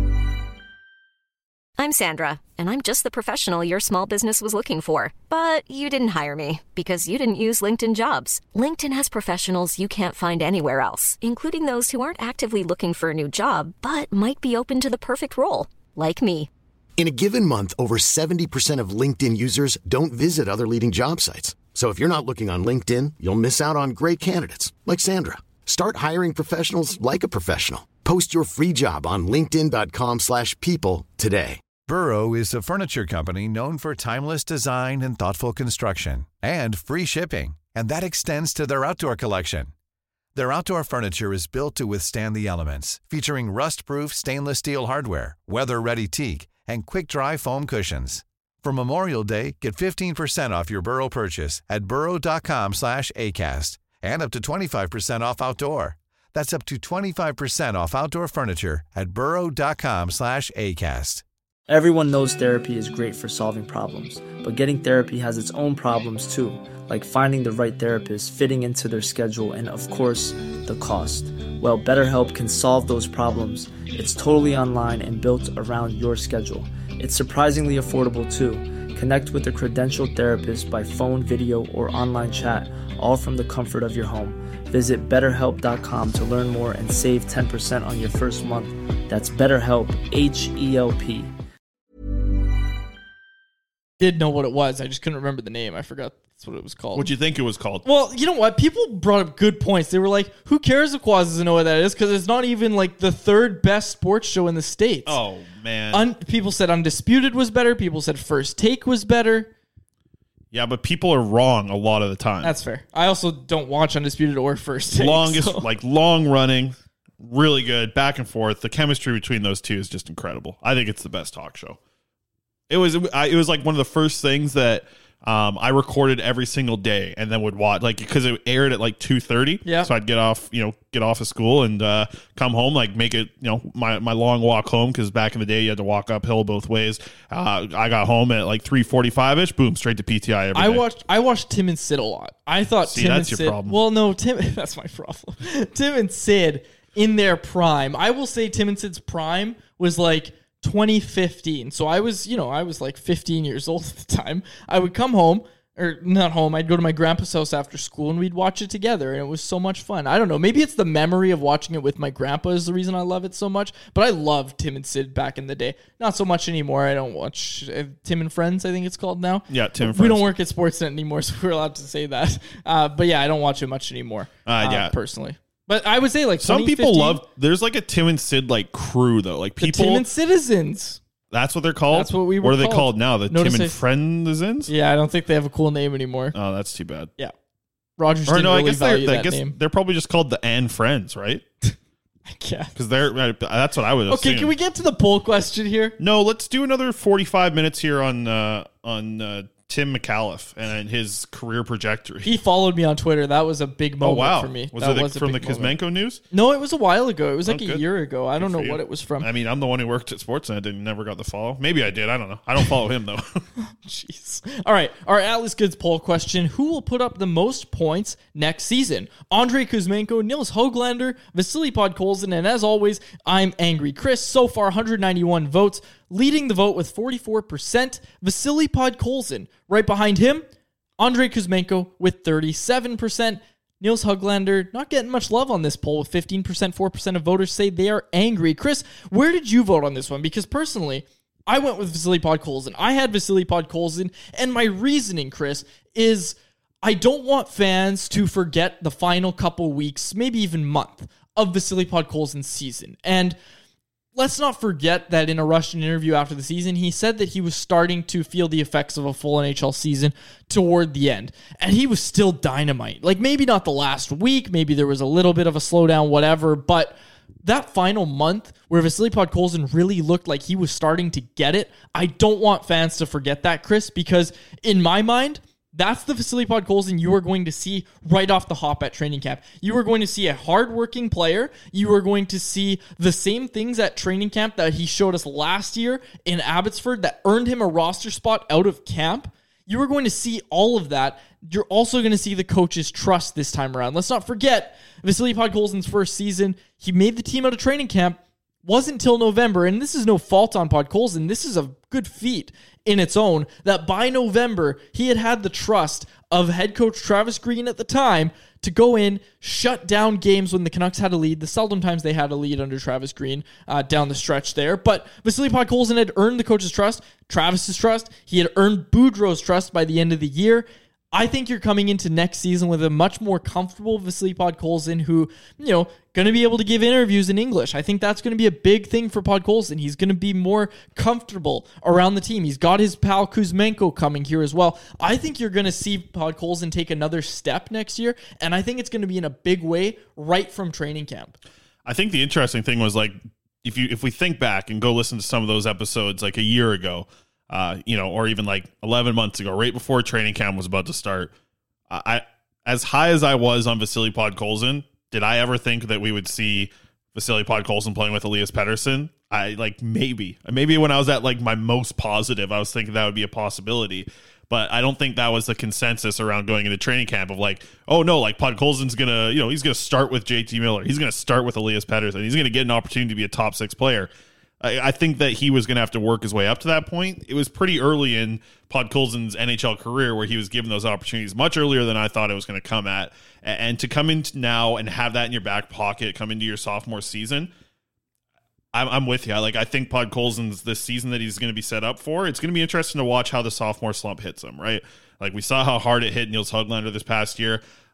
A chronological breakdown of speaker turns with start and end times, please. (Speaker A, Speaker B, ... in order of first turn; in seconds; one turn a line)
Speaker A: 1.8-16.5
Speaker B: 17.0-31.6
Speaker C: 31.9-39.7
Speaker C: 40.4-61.2
Speaker D: 61.7-91.3
Speaker E: 94.0-97.1
Speaker F: 97.0-97.8
Speaker E: 97.8-105.2
Speaker F: 105.1-106.1
Speaker E: 105.9-109.5
Speaker F: 110.5-112.5
Speaker E: 112.4-115.7
Speaker F: 115.0-121.8
Speaker F: 122.7-140.8
Speaker E: 129.7-129.9
Speaker E: 140.6-177.2
Speaker F: 142.9-143.8
Speaker F: 169.5-170.3
Speaker F: 174.5-175.0
Speaker F: 176.4-180.0
Speaker E: 179.6-181.0
Speaker F: 181.3-184.7
Speaker E: 181.9-183.8
Speaker E: 184.7-186.3
Speaker F: 186.3-187.1
Speaker E: 188.0-189.6
Speaker F: 188.3-191.4
Speaker E: 192.3-192.7
Speaker F: 192.8-194.5
Speaker E: 194.1-196.0
Speaker F: 196.0-202.4
Speaker E: 202.2-205.8
Speaker F: 204.0-206.2
Speaker E: 206.3-209.3
Speaker F: 207.5-207.8
Speaker F: 208.4-213.4
Speaker E: 213.7-230.4
Speaker E: 231.0-253.4
Speaker E: 254.2-341.4
Speaker F: 341.9-351.3
Speaker F: 351.9-374.1
Speaker F: 374.6-387.5
Speaker F: 388.7-397.6